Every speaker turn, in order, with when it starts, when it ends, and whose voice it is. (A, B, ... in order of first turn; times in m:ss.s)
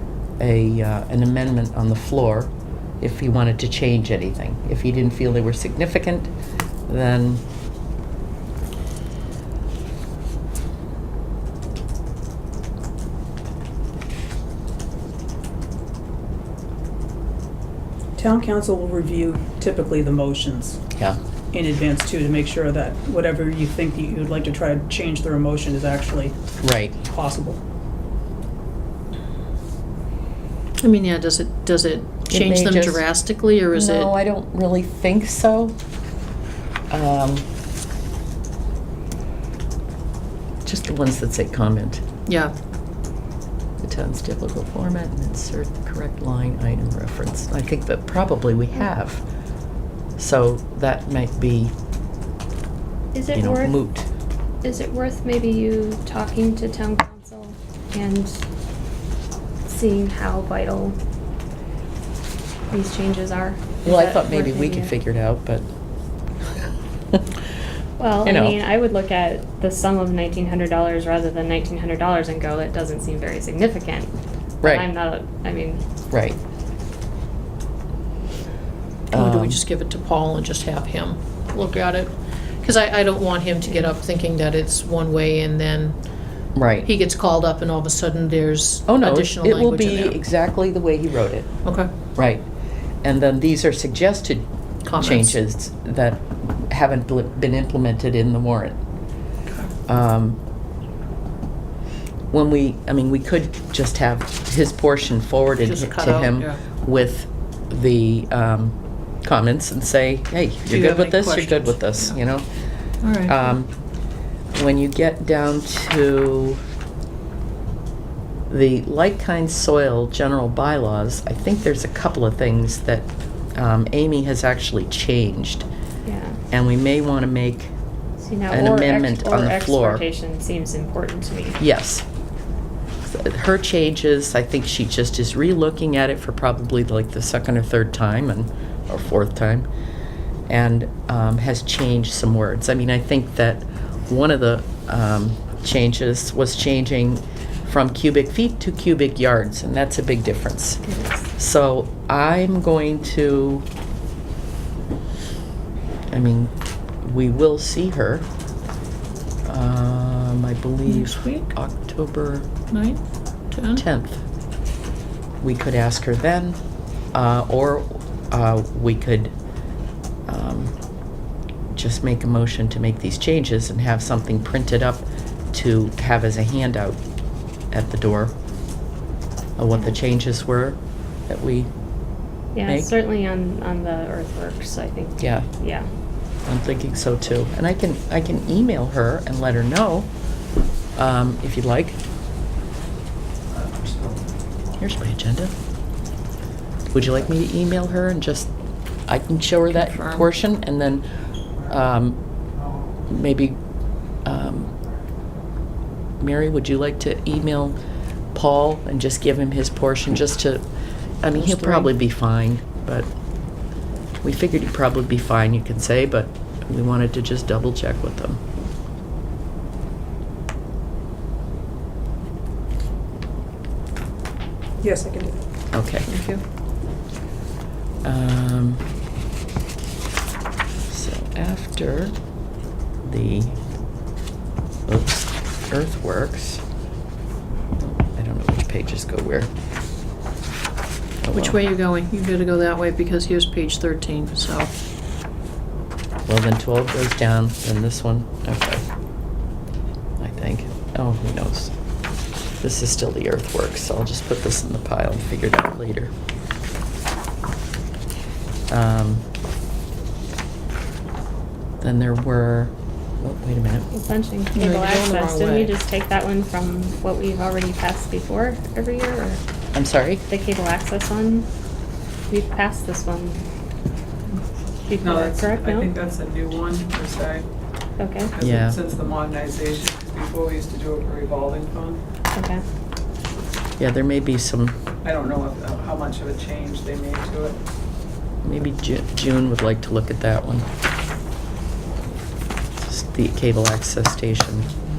0:00.4-0:06.3 A
0:06.9-0:07.4 A
0:18.2-0:20.8 B
0:20.9-0:21.2 A
0:21.5-0:26.4 B
0:26.6-0:27.0 A
0:27.1-0:27.6 B
0:30.8-0:34.1 C
0:32.3-0:33.0 A
0:33.7-0:35.8 A
0:36.9-0:37.5 A
0:40.6-0:42.0 A
0:42.3-0:42.5 C
0:43.8-0:49.2 A
0:50.2-0:51.7 A
0:53.1-0:53.8 D
0:53.3-0:54.1 A
0:54.6-0:58.4 D
0:59.7-1:01.0 D
1:02.7-1:04.9 D
1:03.8-1:05.7 A
1:08.0-1:15.8 D
1:08.2-1:08.6 A
1:14.6-1:14.9 A
1:16.1-1:16.4 A
1:19.1-1:26.0 C
1:19.1-1:19.6 A
1:26.6-1:26.9 A
1:26.8-1:30.2 C
1:28.9-1:31.5 A
1:31.6-1:31.9 C
1:32.2-1:32.4 A
1:33.0-1:38.8 A
1:34.8-1:35.4 C
1:39.9-1:40.4 A
1:42.3-1:52.5 A
1:45.6-1:46.6 C
1:50.7-1:51.8 C
1:53.0-1:53.4 C
1:53.3-1:53.7 A
1:54.5-1:56.6 A
1:58.5-2:05.7 A
2:06.1-2:06.4 D
2:06.5-2:07.7 A
2:08.2-2:11.6 D
2:08.5-2:10.0 A
2:11.6-2:12.0 A
2:13.1-2:19.7 A
2:20.5-2:30.8 A
2:30.8-2:31.3 D
2:31.4-2:33.7 A
2:36.1-2:38.3 A
2:39.5-2:42.5 A
2:40.9-2:41.5 C
2:42.7-2:43.0 C
2:43.5-2:43.8 C
2:43.7-2:44.2 A
2:45.4-2:46.6 A
2:47.1-2:49.3 A
2:50.3-2:50.7 A
2:51.7-2:57.0 A
2:57.7-2:58.4 A
2:59.6-3:01.7 A
3:02.5-3:05.9 D
3:05.2-3:05.5 A
3:06.5-3:10.1 A
3:11.0-3:12.0 A
3:14.8-3:15.5 A
3:16.9-3:18.5 A
3:19.1-3:21.0 A
3:21.6-3:22.2 A
3:23.1-3:23.6 A
3:24.2-3:24.8 A
3:26.2-3:27.8 A
3:28.4-3:30.6 A
3:31.2-3:33.1 A
3:31.4-3:31.9 C
3:34.2-3:38.4 A
3:44.8-3:45.4 B
3:45.7-3:46.1 A
3:46.1-3:46.4 C
3:48.0-3:48.8 A
3:50.9-3:52.2 A
3:53.0-3:53.6 A
3:54.9-3:56.6 A
3:57.8-3:59.5 A
4:01.2-4:01.6 A
4:01.3-4:04.7 C
4:06.3-4:08.9 A
4:10.2-4:11.7 A
4:12.6-4:16.1 A
4:18.7-4:19.2 A
4:21.8-4:23.9 A
4:23.9-4:29.4 D
4:24.5-4:25.7 C
4:29.7-4:30.2 A
4:30.3-4:31.5 D
4:32.3-4:33.4 D
4:34.8-4:35.9 D
4:35.0-4:37.4 E
4:38.0-4:38.3 D
4:38.3-4:42.0 E
4:38.4-4:38.8 A
4:42.3-4:42.6 D
4:43.8-4:44.8 A
4:45.0-4:47.6 E
4:48.4-4:50.7 A
4:52.8-4:54.7 A